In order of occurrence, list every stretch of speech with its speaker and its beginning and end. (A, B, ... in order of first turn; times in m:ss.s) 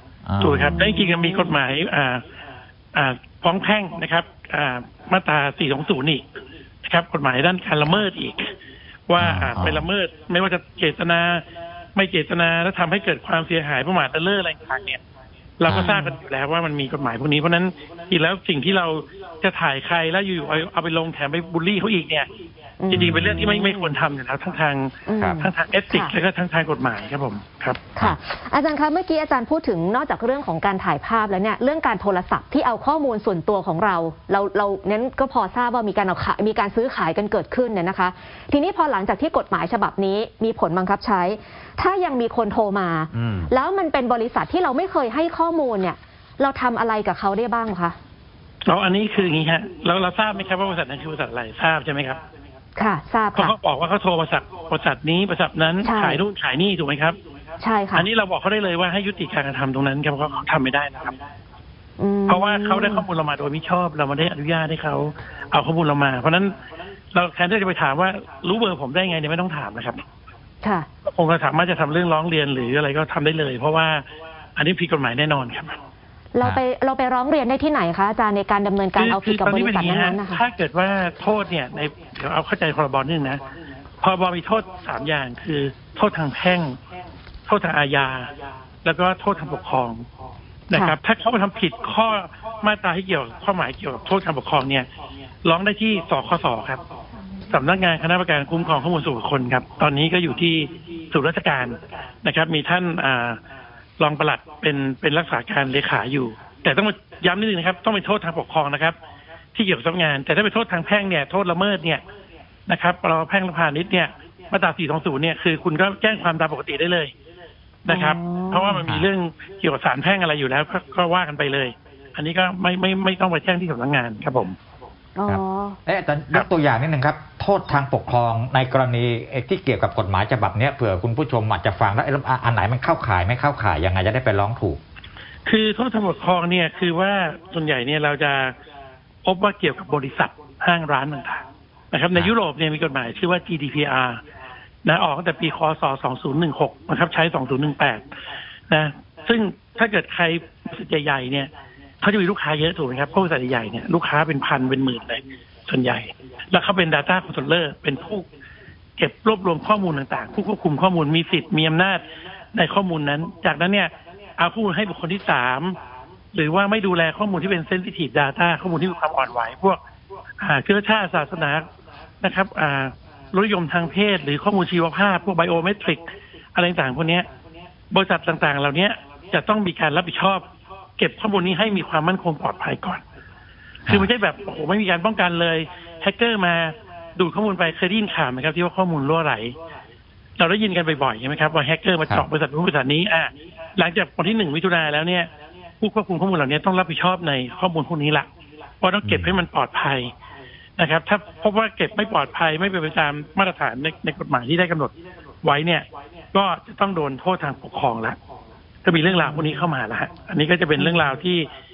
0:00.3-0:00.9 A
0:00.4-0:02.2 B
0:00.6-0:01.5 C
0:02.9-0:06.2 B
0:06.8-0:08.5 B
0:09.1-0:11.4 B
0:09.2-0:09.9 A
0:12.0-0:15.0 B
0:15.6-0:22.3 B
0:15.7-0:15.9 A
0:15.8-0:16.2 C
0:22.8-0:23.9 C
0:22.9-0:23.5 A
0:22.9-0:27.8 B
0:25.1-0:26.1 C
0:25.2-0:25.5 A
0:28.0-0:48.0 C
0:43.1-0:43.5 A
0:48.7-0:52.2 B
0:52.8-0:53.6 C
0:53.4-0:57.2 B
0:55.8-0:56.2 C
0:57.6-0:58.1 C
0:58.0-1:01.2 B
1:02.0-1:03.0 C
1:02.3-1:06.6 B
1:07.1-1:10.0 B
1:10.6-1:10.9 C
1:11.0-1:14.0 B
1:14.6-1:15.8 B
1:16.3-1:20.4 C
1:19.0-1:23.4 B
1:24.0-1:26.8 B
1:27.5-1:28.3 B
1:28.8-1:30.1 B
1:30.7-1:34.9 B
1:35.4-1:36.8 B
1:37.5-1:43.4 B
1:44.0-1:49.0 B
1:49.6-1:52.0 B
1:52.7-1:57.1 B
1:57.8-2:04.6 B
1:57.9-1:58.8 C
2:05.2-2:05.8 C
2:05.3-2:14.8 A
2:15.5-2:18.6 B
2:19.2-2:24.2 B
2:24.8-2:28.0 B
2:28.7-2:31.5 B
2:32.0-2:38.3 B
2:39.0-2:45.8 B
2:46.3-2:49.8 B
2:50.4-2:51.7 B
2:52.2-2:57.3 B
2:57.9-3:00.5 B
3:01.0-3:03.0 B
3:03.9-3:09.6 B
3:10.4-3:18.3 B
3:18.8-3:20.1 B
3:19.0-3:19.4 A
3:20.8-3:28.2 B
3:28.8-3:31.5 B
3:29.1-3:29.5 C
3:30.8-3:31.1 C